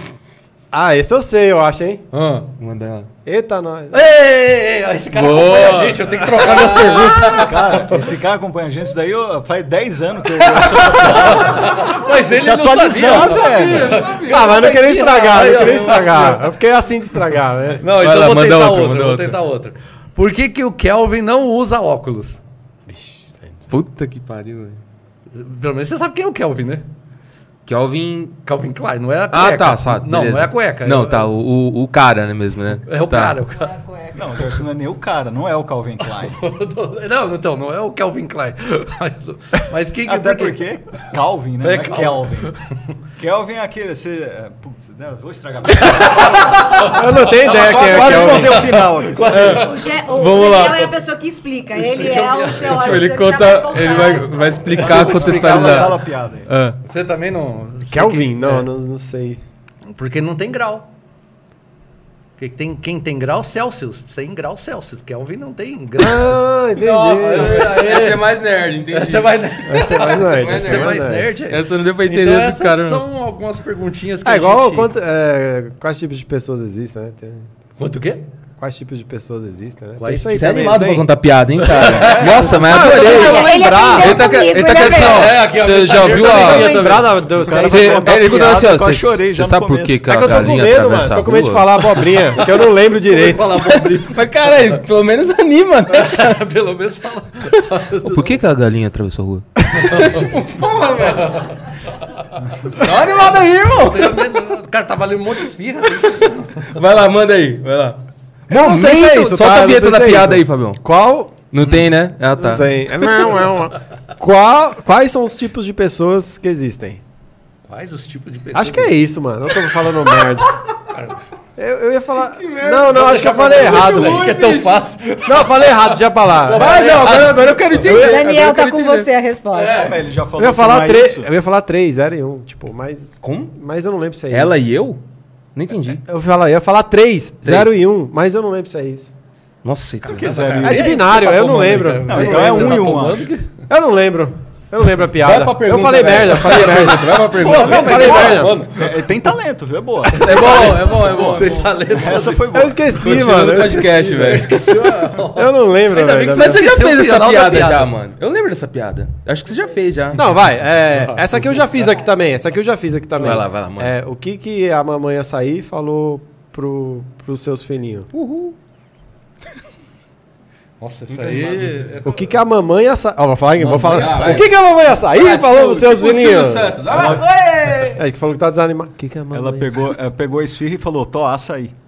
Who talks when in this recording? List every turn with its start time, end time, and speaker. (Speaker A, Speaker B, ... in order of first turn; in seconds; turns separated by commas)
Speaker A: 0.7-2.0, Speaker B: 2.1-2.5, Speaker C: 2.6-3.1, Speaker A: 3.2-4.0, Speaker B: 3.9-8.1, Speaker C: 5.1-7.3, Speaker D: 6.7-14.1, Speaker B: 10.7-16.5, Speaker C: 13.0-15.1, Speaker A: 14.0-17.9, Speaker B: 17.8-22.4, Speaker C: 17.9-19.4, Speaker A: 22.9-23.6, Speaker C: 23.7-24.8, Speaker B: 25.3-26.9, Speaker C: 27.7-28.4, Speaker B: 28.4-31.3, Speaker C: 29.3-33.4, Speaker B: 32.8-33.7, Speaker E: 33.6-34.5, Speaker D: 34.1-36.5, Speaker B: 36.2-40.6, Speaker D: 40.0-42.6, Speaker B: 41.6-42.6, Speaker D: 43.2-49.5, Speaker B: 45.7-50.0, Speaker A: 46.4-48.8, Speaker C: 49.3-50.9, Speaker E: 49.4-54.8, Speaker B: 51.7-53.0, Speaker C: 52.6-56.8, Speaker B: 54.6-56.0, Speaker D: 54.8-56.5, Speaker B: 56.8-58.7, Speaker A: 57.9-59.4, Speaker B: 59.9-60.9, Speaker B: 62.4-66.5, Speaker A: 66.0-67.7, Speaker C: 66.8-73.0, Speaker B: 67.1-68.4, Speaker B: 68.9-74.9, Speaker A: 69.7-71.3, Speaker A: 74.2-77.5, Speaker B: 77.8-78.2, Speaker A: 78.6-81.1, Speaker B: 80.0-80.7, Speaker C: 80.3-86.8, Speaker B: 81.6-83.5, Speaker D: 81.7-82.5, Speaker A: 82.5-84.2, Speaker E: 83.0-85.3, Speaker B: 84.7-87.4, Speaker A: 86.2-88.5, Speaker D: 86.3-90.1, Speaker C: 87.5-92.5, Speaker A: 90.1-93.5, Speaker B: 92.3-94.8, Speaker C: 93.5-96.4, Speaker B: 95.9-98.4, Speaker C: 97.5-101.6, Speaker B: 99.7-106.8, Speaker C: 102.7-104.5, Speaker C: 106.0-108.0, Speaker A: 108.5-111.3, Speaker C: 108.5-110.8, Speaker C: 111.5-112.7, Speaker B: 111.6-111.9, Speaker A: 112.4-117.0, Speaker B: 113.2-113.5, Speaker B: 117.6-119.0, Speaker A: 118.5-120.5, Speaker B: 120.8-121.2, Speaker A: 121.6-124.3, Speaker C: 122.2-124.9, Speaker B: 122.7-128.1, Speaker A: 125.2-126.7, Speaker C: 126.5-129.1, Speaker E: 127.8-129.9, Speaker B: 129.5-130.0, Speaker D: 129.7-131.3, Speaker A: 130.4-134.6, Speaker C: 133.2-133.5, Speaker C: 134.3-135.0, Speaker C: 135.5-136.0, Speaker A: 136.1-139.1, Speaker C: 137.4-137.7, Speaker C: 139.6-140.6, Speaker D: 140.0-140.8, Speaker B: 140.2-143.5, Speaker A: 140.5-142.8, Speaker D: 142.1-143.3, Speaker A: 143.7-148.6, Speaker C: 145.2-148.6, Speaker B: 146.7-149.1, Speaker D: 147.8-153.2, Speaker B: 150.0-152.8, Speaker C: 150.1-151.8, Speaker A: 152.5-154.6, Speaker C: 153.0-154.6, Speaker B: 154.0-157.9, Speaker A: 155.3-156.7, Speaker C: 156.2-160.2, Speaker A: 160.1-168.1, Speaker B: 160.9-161.4, Speaker C: 163.2-163.9, Speaker C: 168.1-168.5, Speaker B: 170.8-172.3, Speaker C: 171.1-172.0, Speaker A: 172.0-177.2, Speaker B: 173.6-174.4, Speaker C: 173.6-174.5, Speaker C: 175.1-178.0, Speaker D: 176.8-177.3, Speaker A: 177.9-179.9, Speaker D: 179.3-181.7